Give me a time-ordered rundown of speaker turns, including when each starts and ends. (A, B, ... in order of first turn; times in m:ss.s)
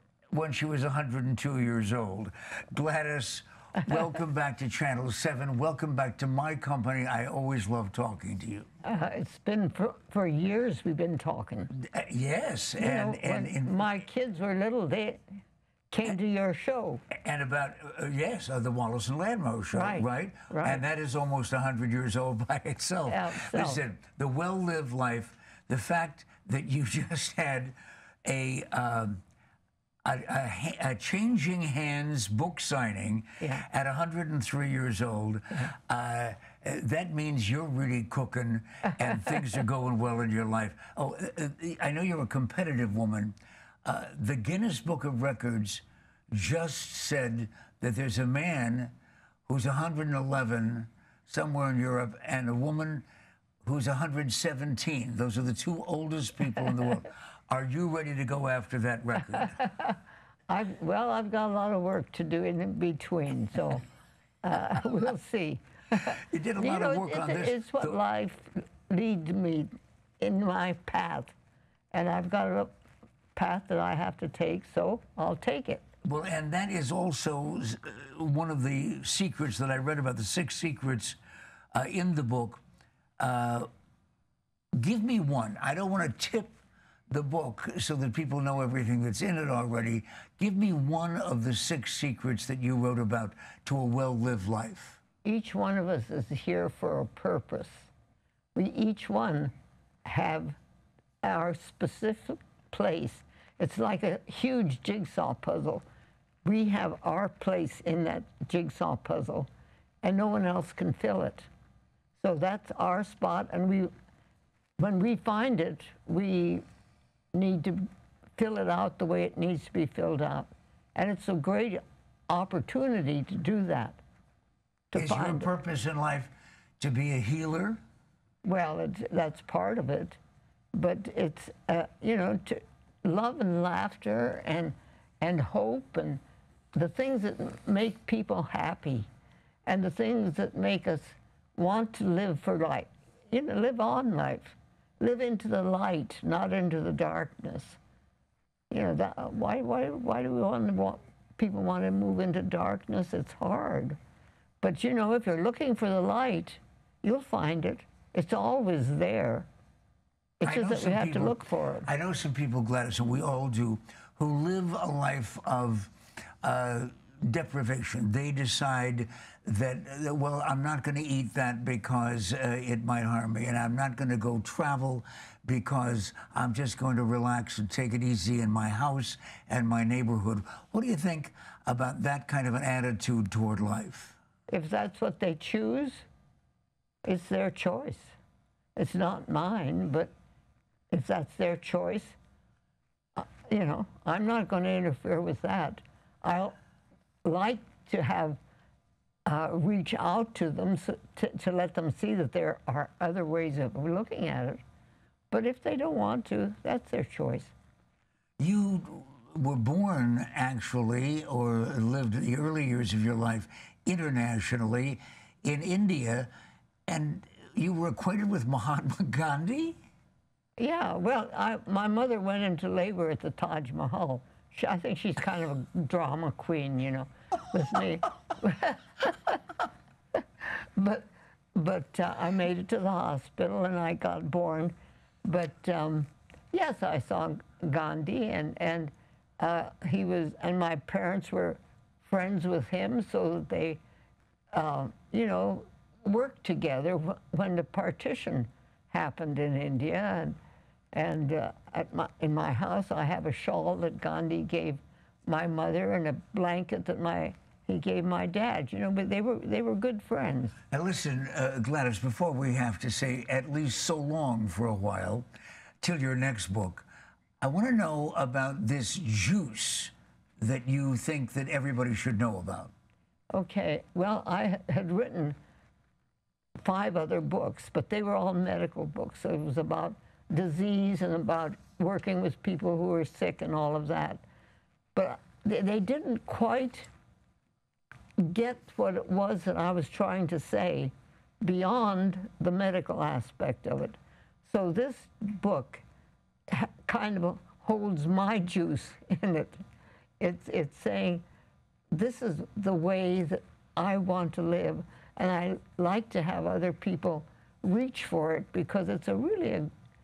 0:00.3-0:08.7 A
0:08.8-0:11.7 B
0:11.7-0:13.9 A
0:12.8-0:15.2 B
0:15.9-0:17.0 B
0:17.1-0:29.2 A
0:19.7-0:20.8 B
0:23.1-0:23.8 B
0:30.0-0:43.3 A
0:43.8-0:48.9 A
0:49.5-0:53.0 A
0:53.6-0:59.6 A
1:00.5-1:03.8 B
1:04.4-1:11.3 B
1:06.3-1:08.0 A
1:11.9-1:12.7 B
1:13.3-1:15.8 B
1:16.0-1:21.2 A
1:21.7-1:22.6 A
1:23.2-1:23.7 A
1:24.8-1:26.5 A
1:27.1-1:35.0 A
1:35.2-1:37.9 B
1:38.5-1:39.5 B
1:40.0-1:40.6 B
1:41.2-1:45.8 B
1:46.4-1:49.5 B
1:50.0-1:51.5 B
1:52.2-1:53.9 B
1:54.8-1:56.6 B
1:57.3-2:04.0 B
2:04.9-2:05.5 B
2:04.9-2:07.8 A
2:08.4-2:10.2 B
2:10.7-2:16.2 B
2:16.7-2:19.1 B
2:19.6-2:27.8 B
2:28.7-2:34.0 B
2:34.6-2:39.5 B
2:40.4-2:41.9 B
2:40.4-3:04.2 A
3:04.5-3:06.0 B
3:07.0-3:08.1 B
3:08.8-3:10.1 B
3:10.9-3:12.2 B
3:13.2-3:16.6 B
3:17.2-3:18.4 B
3:19.2-3:24.6 B
3:25.3-3:27.5 B
3:28.4-3:36.3 A
3:36.9-3:39.8 A
3:40.6-3:49.4 B
3:50.4-4:03.8 B
4:04.5-4:10.4 B
4:10.9-4:20.5 B
4:20.7-4:25.2 A
4:25.8-4:26.9 A
4:27.4-4:32.7 A
4:33.3-4:35.4 B
4:36.6-4:44.2 B
4:44.9-4:46.9 B
4:48.2-4:55.8 B
4:56.5-4:59.6 B
5:00.2-5:01.2 B
5:01.9-5:09.7 B